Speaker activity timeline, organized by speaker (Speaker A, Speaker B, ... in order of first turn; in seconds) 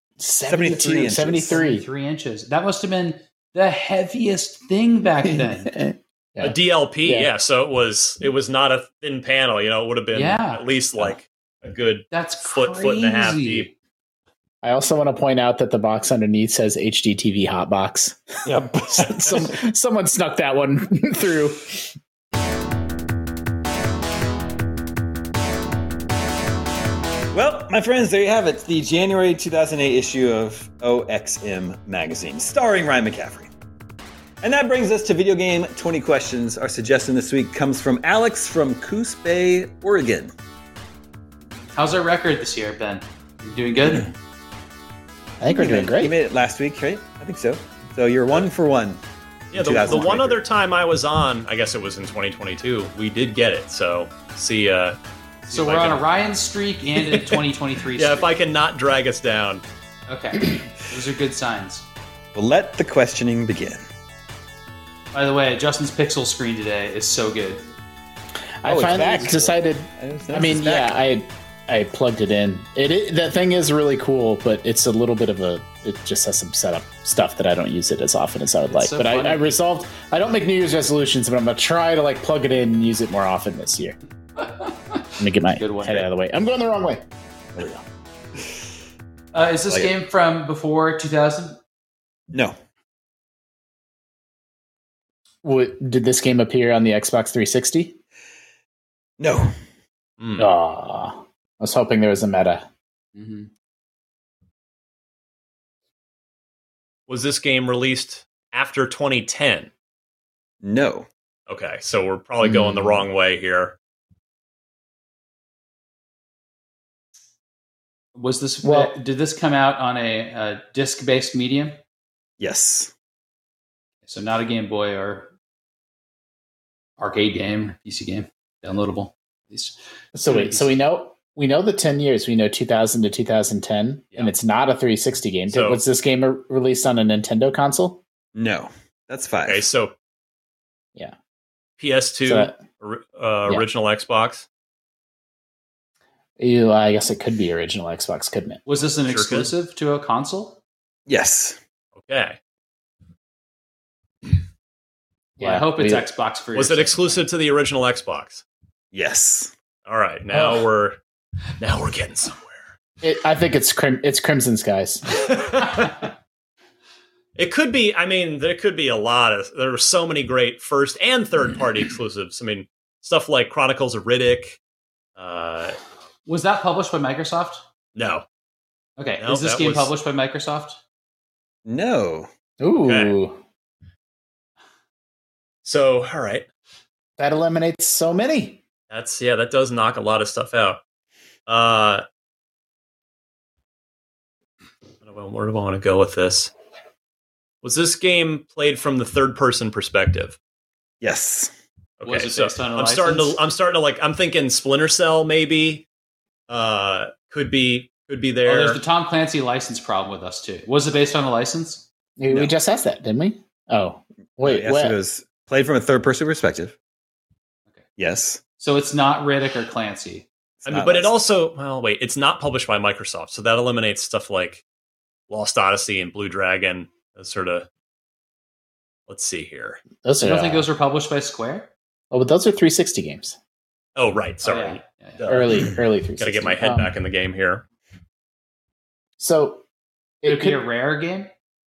Speaker A: 0.2-1.9, 5.3-7.3, 14.6-18.2, 18.9-21.9, 45.4-46.1, 68.6-84.0, 85.2-87.0, 95.4-98.0, 100.4-102.6, 112.4-113.0, 118.6-118.9, 130.1-138.0, 142.2-142.6, 146.4-148.6, 155.4-156.1, 160.3-160.7, 163.0-165.2, 182.6-183.4, 187.2-188.6, 212.2-214.9, 230.0-230.6, 232.1-233.4, 235.3-236.9, 239.2-239.6, 240.2-240.6
Speaker B: 0.4-1.6, 18.4-19.5, 27.3-33.5, 34.4-40.3, 45.5-49.0, 49.5-50.4, 62.3-63.8, 68.6-70.9, 87.5-87.8, 92.3-92.5, 99.2-99.5, 110.6-111.1, 122.4-122.9, 138.3-139.6, 151.1-151.6, 158.9-159.5, 181.6-182.3, 201.0-201.5, 214.4-216.7, 218.0-218.4, 220.6-221.1
Speaker C: 1.5-5.8, 10.1-10.6, 12.1-13.7, 41.7-44.1, 55.5-58.3, 60.1-61.9, 65.1-67.7, 78.7-79.5, 84.4-86.1, 89.3-91.6, 103.1-103.5, 118.1-121.8, 124.0-125.3, 127.0-130.7, 148.7-150.6, 155.4-157.2, 176.2-177.6, 179.0-180.8, 202.0-203.4, 208.4-211.9, 218.6-220.3, 230.2-231.7, 234.4-235.3, 240.2-241.3
Speaker D: 6.4-13.7, 49.5-56.0, 57.9-59.6, 100.2-100.5, 107.1-109.7, 111.5-113.8, 135.5-135.8, 139.4-139.9, 141.8-144.5, 149.1-149.5, 152.0-152.4, 156.5-158.4, 159.8-161.0, 161.6-162.6, 165.1-166.1, 167.3-174.6, 175.2-175.8, 177.9-178.2, 179.2-179.9, 182.8-183.1, 185.6-186.4, 188.9-190.8, 191.5-192.0, 195.0-196.5, 197.6-200.4, 202.0-205.8, 206.5-208.8, 220.6-224.6, 225.3-227.7, 229.1-229.8, 233.9-237.6